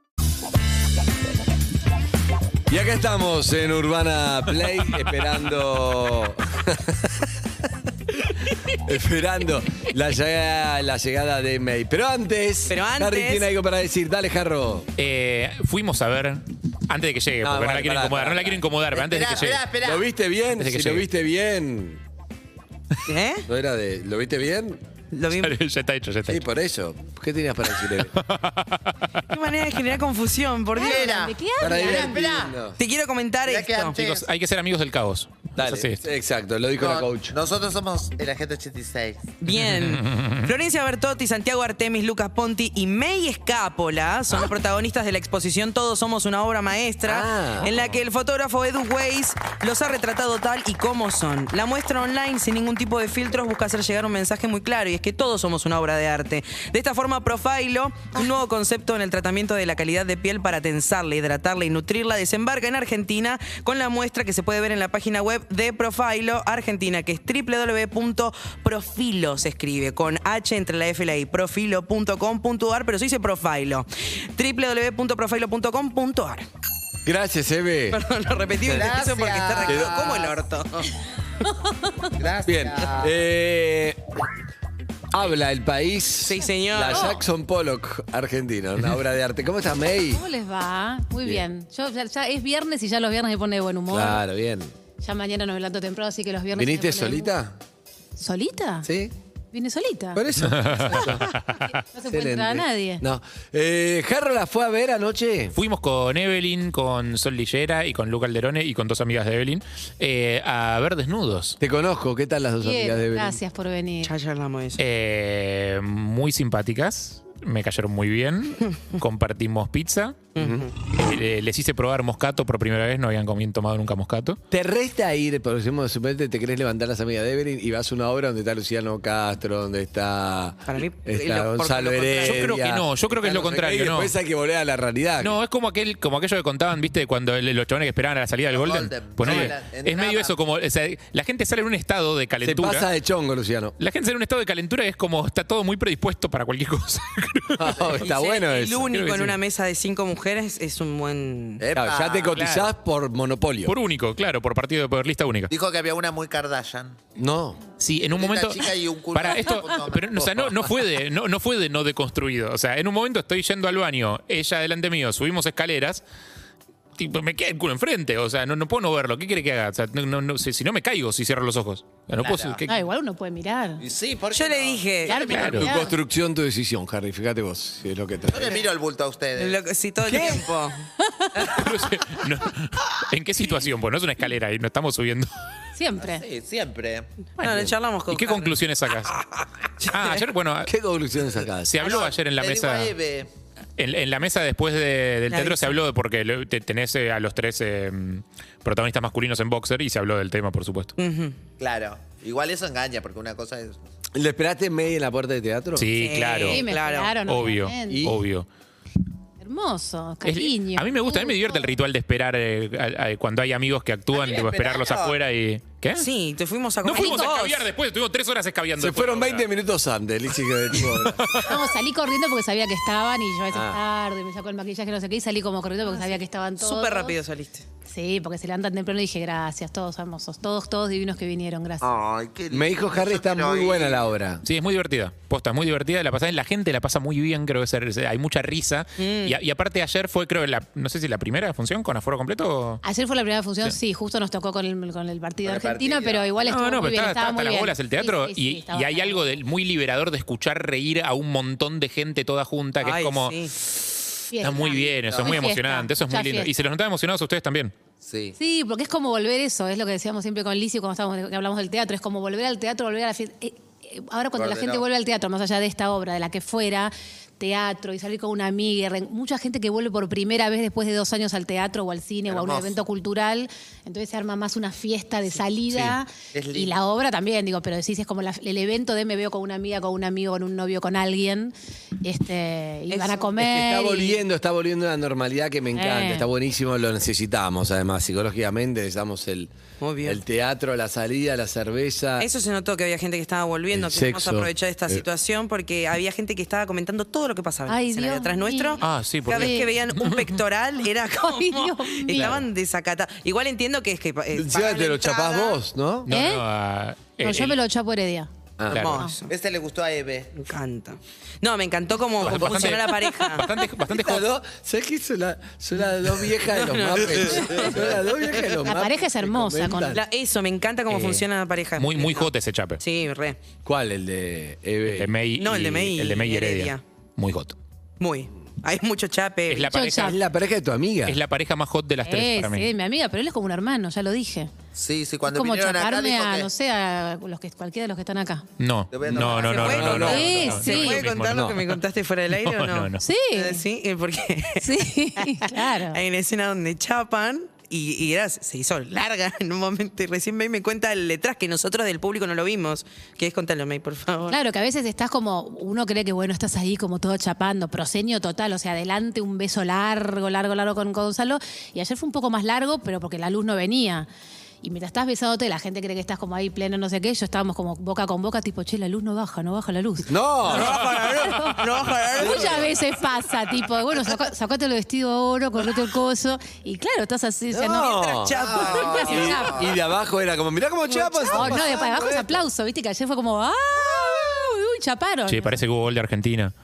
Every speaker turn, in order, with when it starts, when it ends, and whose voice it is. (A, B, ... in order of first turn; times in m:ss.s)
0:02.7-0:07.2 A
0:08.7-0:14.9 A
0:12.7-0:13.5 B
0:15.0-0:19.7 C
0:17.4-0:18.6 A
0:18.9-0:20.1 D
0:19.8-0:22.0 A
0:20.6-0:21.0 C
0:23.0-0:23.4 B
0:23.5-0:24.8 A
0:25.1-0:25.6 B
0:25.3-0:26.4 C
0:26.2-0:28.1 A
0:28.0-0:29.1 C
0:29.3-0:31.2 B
0:30.8-0:32.2 E
0:30.8-0:32.6 D
0:31.6-0:32.8 A
0:32.8-0:34.0 B
0:33.4-0:34.3 D
0:34.0-0:36.0 C
0:35.6-0:37.3 A
0:36.8-0:39.2 D
0:39.4-1:16.5 B
0:39.6-0:40.5 C
0:47.0-0:47.7 A
1:17.0-1:18.0 A
1:17.9-1:20.9 B
1:18.6-1:18.9 A
1:18.7-1:20.4 D
1:19.6-1:20.0 A
1:22.2-1:23.1 D
1:22.4-1:24.0 A
1:25.1-1:30.2 A
1:26.2-1:27.2 B
1:30.1-1:34.2 E
1:33.9-1:34.7 A
1:35.0-1:37.3 E
1:36.5-1:37.6 A
1:38.2-1:38.9 E
1:38.8-1:39.1 A
1:39.5-1:40.2 E
1:40.1-1:41.3 A
1:40.6-1:41.6 C
1:41.7-1:43.0 E
1:42.1-1:45.5 A
1:45.6-1:51.6 C
1:51.6-1:53.4 A
1:52.6-1:54.1 E
1:54.0-1:54.8 B
1:54.8-2:00.2 C
2:00.3-2:00.7 B
2:00.4-2:00.6 A
2:00.9-2:04.4 C
2:04.5-2:15.4 A
2:10.6-2:12.5 B
2:12.2-2:14.1 C
2:15.2-2:22.9 C
2:18.5-2:20.4 D
2:22.4-2:23.7 A
2:23.8-2:28.0 C
2:27.6-2:28.9 A
2:28.0-2:31.6 B
2:28.9-2:29.4 C
2:31.6-2:32.4 D
2:31.7-2:33.7 A
2:32.3-2:32.7 C
2:33.7-2:35.5 C
2:35.5-2:37.0 D
2:37.2-2:37.6 A
2:37.8-2:46.0 C
2:38.1-2:40.7 D
2:47.0-2:52.7 C
2:52.2-2:52.6 D
2:52.6-2:53.8 E
2:53.8-2:55.9 D
2:54.3-2:55.3 B
2:55.1-2:56.0 E
2:55.3-2:55.7 C
2:55.5-2:58.6 A
2:58.3-2:59.6 D
2:59.4-3:00.7 B
3:00.1-3:00.4 A
3:01.4-3:05.3 C
3:05.7-3:06.2 E
3:06.0-3:07.1 D
3:07.4-3:08.6 B
3:08.1-3:09.2 C
3:09.8-3:10.2 B
3:09.9-3:10.7 C
3:10.7-3:11.8 A
3:11.6-3:12.9 C
3:11.8-3:13.3 D
3:13.8-3:20.9 C
3:15.3-3:15.8 B
3:21.0-3:21.3 B
3:21.6-3:23.8 D
3:24.1-3:25.9 A
3:25.8-3:26.6 C
3:26.0-3:27.2 B
3:26.4-3:28.1 E
3:27.2-3:28.4 C
3:27.9-3:28.2 A
3:29.4-3:31.8 E
3:30.2-3:36.1 C
3:34.1-3:35.2 D
3:36.0-3:37.7 B
3:36.8-3:39.4 C
3:36.9-3:37.4 E
3:38.8-3:41.2 A
3:41.0-3:41.6 C
3:41.4-3:47.2 E
3:43.5-3:43.8 A
3:45.8-3:47.6 B
3:47.8-3:51.9 E
3:51.8-3:54.0 D
3:52.5-3:54.4 A
3:54.4-4:02.8 C
3:59.0-3:59.4 B
4:02.8-4:09.4 E
4:05.4-4:06.3 D
4:06.4-4:17.7 C
4:12.8-4:13.5 B
4:14.3-4:16.5 E
4:15.1-4:15.4 D
4:18.0-4:18.3 D
4:18.4-4:44.2 E
4:24.4-4:24.8 D
4:32.3-4:32.8 D
4:36.3-4:36.7 D
4:42.9-4:43.3 B
4:43.4-4:49.5 A
4:45.7-4:46.3 E
4:49.8-4:50.2 B
4:50.0-4:52.3 A
4:52.2-5:04.8 B
4:53.7-4:55.0 A
4:57.7-4:59.7 E
4:58.8-5:00.2 C
5:01.2-5:02.3 E
5:04.3-5:06.1 A
5:04.5-5:05.6 D
5:06.0-5:07.6 C
5:06.1-5:06.4 E
5:07.2-5:08.3 E
5:08.6-5:08.9 A
5:08.7-5:09.3 B
5:08.7-5:09.0 C
5:09.3-5:10.3 D
5:10.4-5:13.4 B
5:12.2-5:14.3 C
5:12.2-5:12.8 A
5:13.9-5:20.0 A
5:16.5-5:18.6 B
5:17.3-5:17.9 D
5:18.6-5:20.0 E
5:19.9-5:23.4 B
5:20.9-5:21.2 C
5:21.8-5:22.8 C
5:23.6-5:25.1 A
5:24.9-5:27.6 C
5:25.4-5:26.8 B
5:28.0-5:29.7 B
5:29.5-5:30.1 C
5:29.7-5:30.2 E
5:30.0-5:31.2 A
5:31.0-5:32.7 C
5:32.0-5:34.5 E
5:34.7-5:36.5 D
5:35.3-5:38.4 E
5:38.6-5:41.8 C
5:38.9-5:40.2 D
5:39.1-5:40.6 A
5:39.4-5:54.4 B
5:40.1-5:41.0 E
5:41.3-5:41.6 A
5:42.3-5:43.0 C
5:43.0-5:43.6 E
5:44.6-5:46.0 E
5:54.3-6:04.1 E
6:04.6-6:11.6 E
6:10.1-6:10.8 A
6:10.5-6:12.7 B
6:12.2-6:17.9 E
6:17.5-6:19.4 B
6:17.6-6:22.4 A
6:18.4-6:19.7 D
6:18.7-6:19.7 E
6:20.9-6:21.8 B
6:21.3-6:25.6 E
6:25.3-6:26.5 C